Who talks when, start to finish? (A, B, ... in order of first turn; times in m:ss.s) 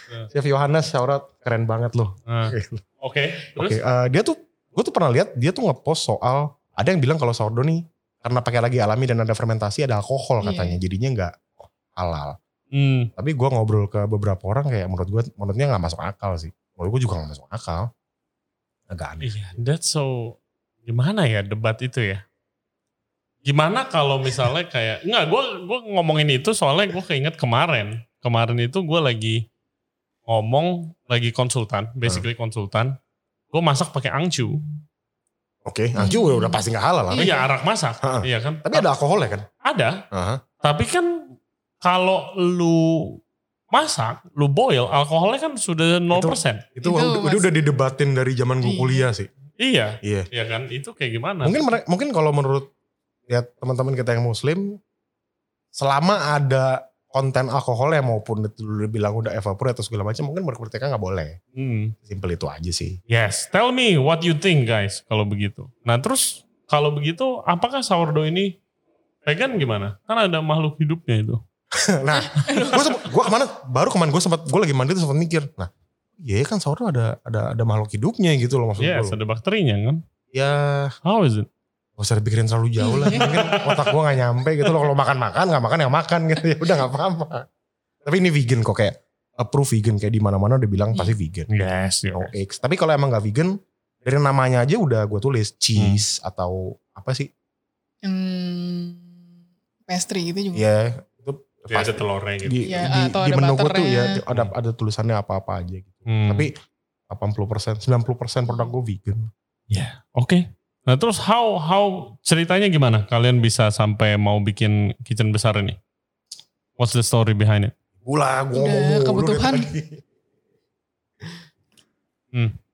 0:00.3-0:02.8 A
0:02.3-0:03.8 B
0:03.5-0:12.4 A
0:10.4-0:10.8 C
0:12.7-0:13.1 B
0:13.2-0:17.9 A
0:18.9-0:19.6 A
0:19.2-0:22.2 B
0:23.5-0:29.4 B
0:30.3-0:32.9 B
0:33.5-0:34.6 B
0:35.6-0:37.3 A
0:36.0-0:36.6 C
0:37.1-0:37.5 C
0:37.1-0:38.9 B
0:38.0-0:39.5 A
0:39.6-0:40.0 B
0:40.1-0:40.4 A
0:40.6-0:41.2 B
0:41.8-0:43.2 B
0:43.7-0:46.6 B
0:46.1-0:49.3 A
0:46.8-0:47.5 C
0:48.6-0:49.1 C
0:49.6-0:51.6 B
0:50.0-0:50.3 A
0:51.4-0:52.7 A
0:53.3-0:54.8 A
0:55.7-1:01.4 A
1:01.6-1:02.0 B
1:02.0-1:03.0 A
1:03.1-1:08.5 B
1:09.2-1:11.4 B
1:11.7-1:19.2 A
1:12.2-1:13.1 C
1:18.8-1:20.0 B
1:20.3-1:20.9 A
1:21.0-1:21.5 B
1:22.0-1:27.5 A
1:22.8-1:23.6 C
1:23.1-1:23.9 B
1:28.0-1:37.3 A
1:31.5-1:32.3 B
1:35.8-1:36.0 B
1:38.0-1:39.1 C
1:39.9-1:40.6 C
1:40.5-1:46.5 A
1:41.7-1:42.6 B
1:42.6-1:44.2 C
1:46.1-1:46.5 B
1:47.1-1:49.3 A
1:48.5-1:48.7 C
1:49.7-1:55.8 B
1:56.8-1:57.7 B
1:58.0-2:00.0 A
1:58.6-1:59.7 C